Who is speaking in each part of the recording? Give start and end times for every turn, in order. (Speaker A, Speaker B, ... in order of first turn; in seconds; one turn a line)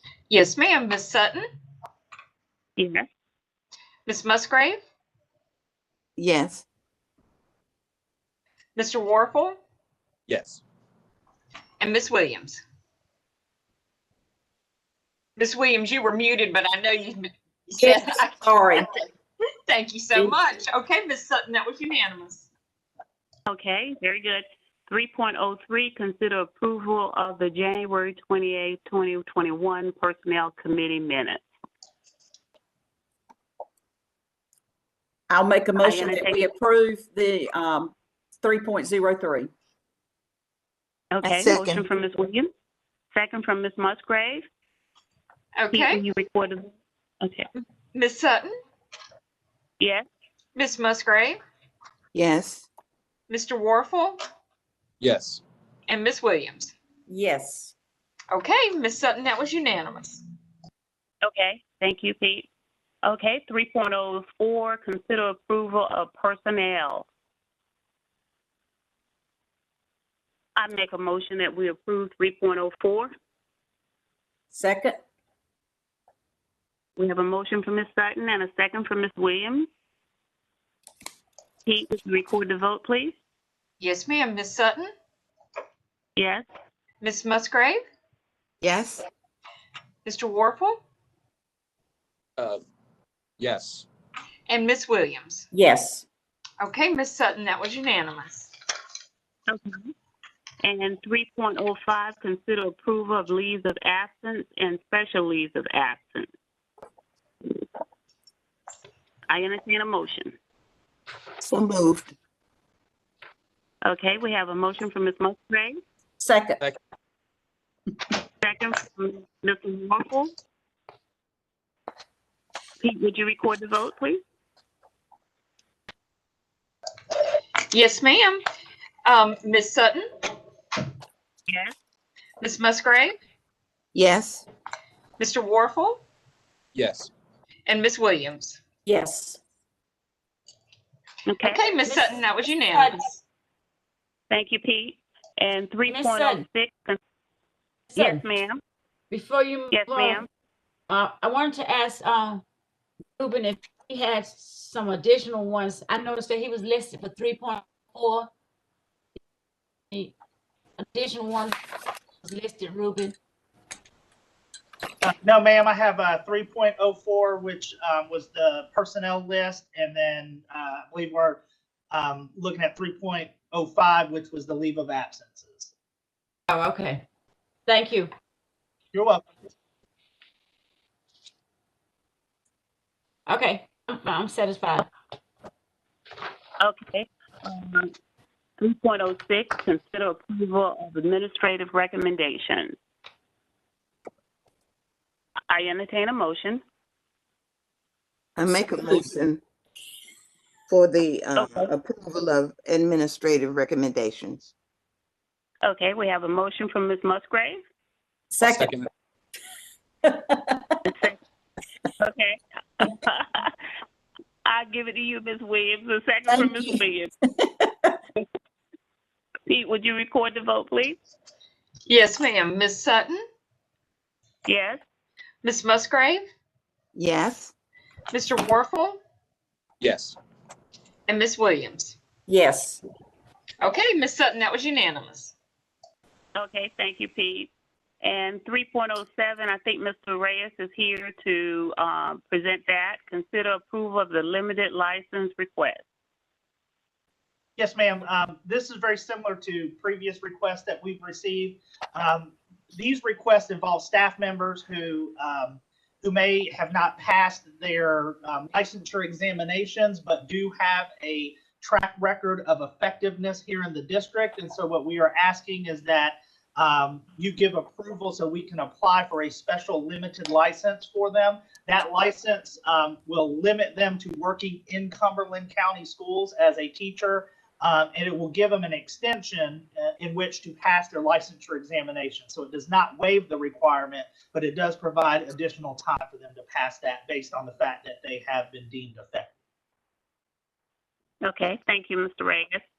Speaker A: 0.3-1.4
Speaker B: 2.8-3.0
Speaker A: 4.0-4.8
Speaker C: 6.2-6.6
Speaker A: 8.8-9.6
Speaker D: 10.3-10.6
Speaker A: 11.8-12.6
Speaker A: 15.4-19.0
Speaker E: 17.8-18.9
Speaker A: 19.7-22.5
Speaker B: 23.5-31.4
Speaker E: 35.3-39.5
Speaker B: 35.8-36.4
Speaker B: 41.1-42.5
Speaker C: 41.2-41.9
Speaker B: 43.1-44.5
Speaker A: 45.5-46.0
Speaker B: 45.7-47.5
Speaker A: 47.9-48.5
Speaker A: 50.5-51.4
Speaker C: 52.1-52.7
Speaker A: 53.3-54.2
Speaker D: 55.0-55.4
Speaker A: 55.9-56.7
Speaker E: 57.1-57.7
Speaker A: 58.3-60.2
Speaker B: 61.2-62.5
Speaker B: 63.0-67.1
Speaker B: 70.6-73.1
Speaker E: 74.5-75.0
Speaker B: 77.0-79.7
Speaker B: 81.7-83.2
Speaker A: 83.8-84.9
Speaker B: 86.2-86.5
Speaker A: 87.0-87.8
Speaker C: 88.6-89.0
Speaker A: 90.0-90.8
Speaker D: 92.4-92.6
Speaker D: 93.4-93.9
Speaker A: 94.5-95.5
Speaker E: 95.5-96.1
Speaker A: 96.6-98.5
Speaker B: 99.5-99.9
Speaker B: 100.6-106.3
Speaker B: 109.3-110.3
Speaker C: 111.4-112.1
Speaker B: 113.8-115.8
Speaker E: 116.2-116.6
Speaker B: 118.4-120.3
Speaker B: 122.8-124.2
Speaker A: 127.7-128.4
Speaker A: 129.0-130.0
Speaker A: 132.4-133.2
Speaker C: 133.9-134.4
Speaker A: 135.2-136.0
Speaker D: 136.7-137.1
Speaker A: 137.7-138.6
Speaker E: 138.8-139.4
Speaker B: 141.2-141.7
Speaker A: 141.4-143.1
Speaker F: 141.8-143.0
Speaker B: 144.3-147.0
Speaker F: 145.9-146.4
Speaker F: 147.9-148.2
Speaker B: 147.9-148.6
Speaker F: 149.1-150.2
Speaker B: 149.7-150.3
Speaker F: 150.9-152.4
Speaker F: 153.2-158.3
Speaker F: 160.8-161.6
Speaker F: 162.2-163.2
Speaker G: 165.0-171.4
Speaker G: 171.9-175.7
Speaker F: 176.5-177.0
Speaker F: 177.7-178.1
Speaker G: 178.9-179.3
Speaker F: 183.3-184.9
Speaker B: 186.6-187.9
Speaker B: 188.6-192.8
Speaker B: 195.5-196.6
Speaker C: 198.4-199.4
Speaker C: 200.7-204.5
Speaker B: 201.3-201.7
Speaker B: 205.6-207.6
Speaker E: 208.3-208.8
Speaker D: 208.4-208.9
Speaker E: 210.0-210.7
Speaker B: 210.8-211.2
Speaker B: 212.0-213.6
Speaker B: 214.4-217.1
Speaker B: 219.5-221.0
Speaker A: 221.8-223.2
Speaker B: 224.4-224.8
Speaker A: 225.4-226.2
Speaker C: 226.9-227.5
Speaker A: 228.1-229.0
Speaker D: 229.8-230.2
Speaker A: 231.1-232.0
Speaker E: 232.3-232.8
Speaker A: 233.6-235.3
Speaker B: 236.3-237.5
Speaker B: 238.0-245.8
Speaker G: 247.6-289.3
Speaker B: 291.2-292.6